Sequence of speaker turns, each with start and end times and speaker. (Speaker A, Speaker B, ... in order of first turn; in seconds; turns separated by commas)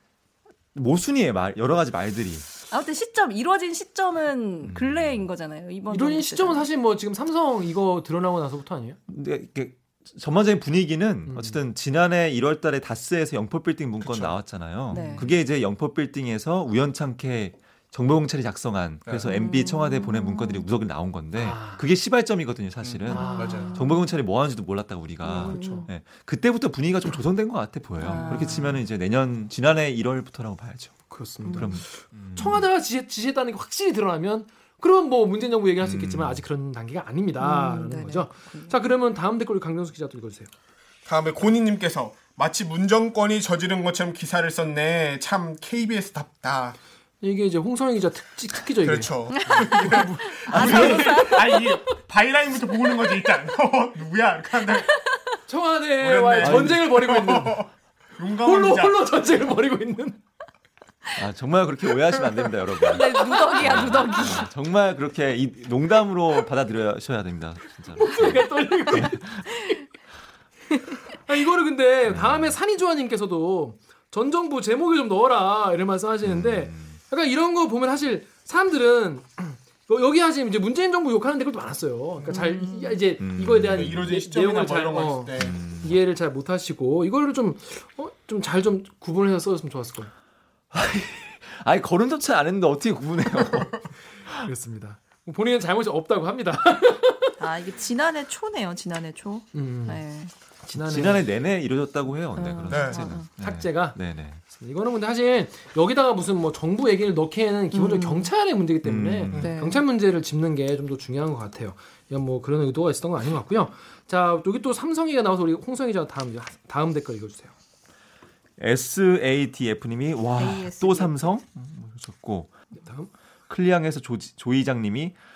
Speaker A: 0.8-2.5, Speaker B: 2.7-6.7, Speaker A: 4.6-5.2, Speaker C: 5.9-9.0, Speaker A: 9.1-32.6, Speaker C: 11.3-11.6, Speaker D: 14.0-14.4, Speaker C: 14.9-15.3, Speaker B: 14.9-15.3, Speaker D: 19.1-19.4, Speaker B: 19.3-20.6, Speaker C: 21.4-21.8, Speaker D: 22.8-23.8, Speaker C: 23.1-23.7, Speaker B: 23.1-24.0, Speaker B: 25.2-25.9, Speaker C: 25.4-25.9, Speaker B: 28.0-28.8, Speaker C: 28.0-28.7, Speaker C: 31.1-40.5, Speaker B: 31.4-31.8, Speaker A: 35.8-36.4, Speaker B: 37.4-38.8, Speaker D: 41.1-46.8, Speaker C: 47.2-51.4, Speaker D: 48.8-54.9, Speaker B: 49.5-49.8, Speaker A: 50.5-51.3, Speaker B: 50.5-51.4, Speaker B: 55.0-55.4, Speaker C: 55.5-57.6, Speaker D: 56.0-59.0, Speaker A: 56.4-56.8, Speaker C: 58.4-60.2, Speaker A: 61.1-69.4, Speaker B: 62.8-64.5, Speaker C: 68.0-69.6, Speaker B: 69.5-69.8, Speaker C: 71.2-90.1, Speaker A: 72.1-72.6, Speaker A: 76.2-77.0, Speaker B: 82.3-83.0, Speaker A: 83.2-84.0, Speaker D: 83.7-85.6, Speaker A: 85.4-86.0, Speaker A: 90.7-94.4, Speaker C: 94.3-97.4, Speaker B: 97.4-100.3, Speaker C: 99.5-100.0, Speaker C: 100.6-101.3, Speaker A: 100.7-104.4, Speaker B: 102.3-103.3, Speaker D: 102.7-103.1, Speaker C: 103.4-117.5, Speaker B: 107.7-108.3, Speaker A: 108.8-109.5, Speaker B: 109.4-109.8, Speaker A: 118.6-122.5, Speaker B: 120.4-121.1, Speaker C: 122.7-123.1, Speaker A: 123.5-125.1